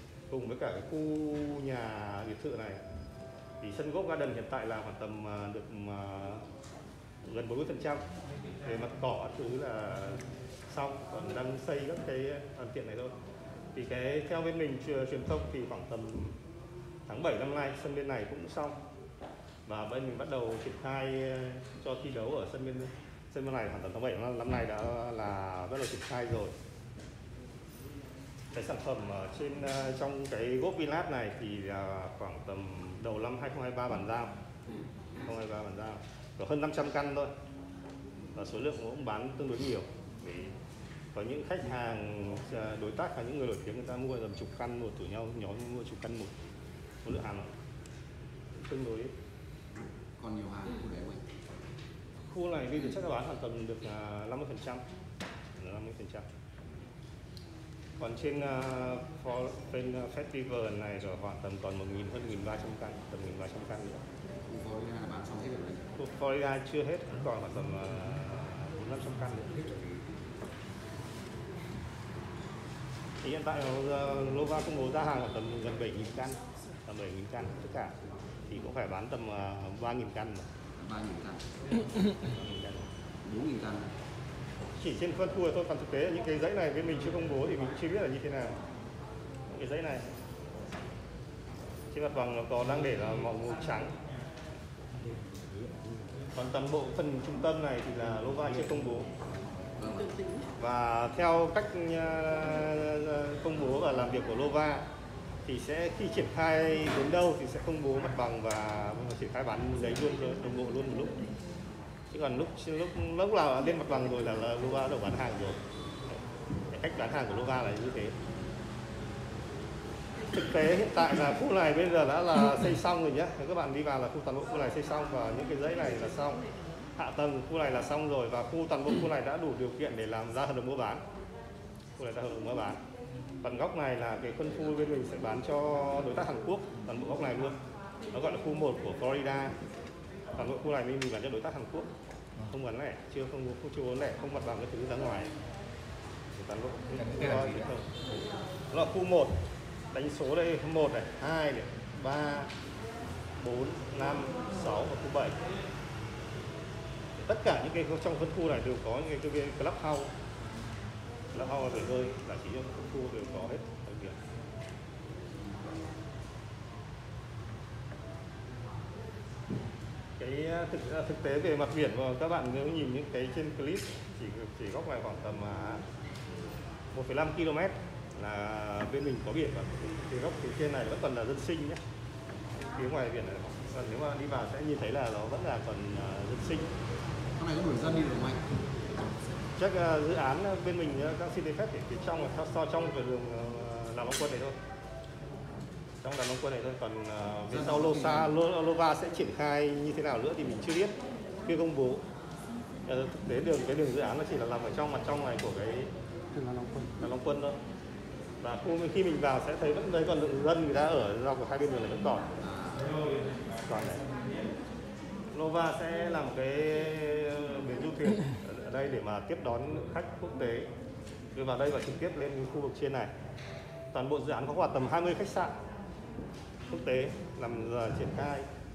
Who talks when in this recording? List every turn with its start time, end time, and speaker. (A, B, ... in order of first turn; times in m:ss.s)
0:00.3-0:02.8 A
0:03.6-0:06.4 A
0:07.2-0:08.0 A
0:08.6-0:13.1 A
0:13.7-0:16.4 A
0:17.1-0:18.8 A
0:19.6-0:26.5 A
0:28.5-0:34.3 A
0:35.2-0:37.3 A
0:38.3-0:40.5 A
0:41.1-0:46.3 A
0:47.0-0:47.5 A
0:48.5-0:49.1 A
0:50.2-0:51.2 B
0:52.3-0:54.8 A
0:55.6-0:56.2 A
0:58.0-1:04.0 A
1:04.5-1:05.9 B
1:06.0-1:09.8 A
1:13.2-1:17.9 A
1:18.5-1:20.5 A
1:20.7-1:21.4 B
1:22.2-1:22.9 A
1:23.2-1:23.9 B
1:24.8-1:28.6 A
1:29.5-1:30.1 A
1:31.9-1:33.9 A
1:36.3-1:39.1 A
1:39.8-1:40.2 B
1:40.6-1:44.8 A
1:45.4-1:51.2 A
1:52.1-1:55.6 A
1:56.7-1:58.1 A
2:00.3-2:06.4 A
2:07.0-2:11.0 A
2:12.0-2:12.8 A
2:13.4-2:17.6 A
2:18.1-2:19.5 A
2:20.4-2:21.9 A
2:22.5-2:25.3 A
2:26.3-2:27.9 A
2:28.7-2:29.3 A
2:29.9-2:32.5 A
2:33.4-2:35.4 A
2:37.2-2:40.1 A
2:41.3-2:44.2 A
2:50.2-2:55.8 A
2:56.9-3:01.8 A
3:02.7-3:06.7 A
3:07.4-3:08.5 B
3:09.6-3:14.5 A
3:16.0-3:20.9 A
3:17.5-3:18.3 B
3:21.4-3:22.0 A
3:22.9-3:27.6 A
3:28.4-3:32.3 A
3:32.4-3:33.0 B
3:33.7-3:34.0 A
3:35.3-3:40.7 A
3:41.3-3:43.1 A
3:43.9-3:45.5 A
3:46.7-3:48.5 A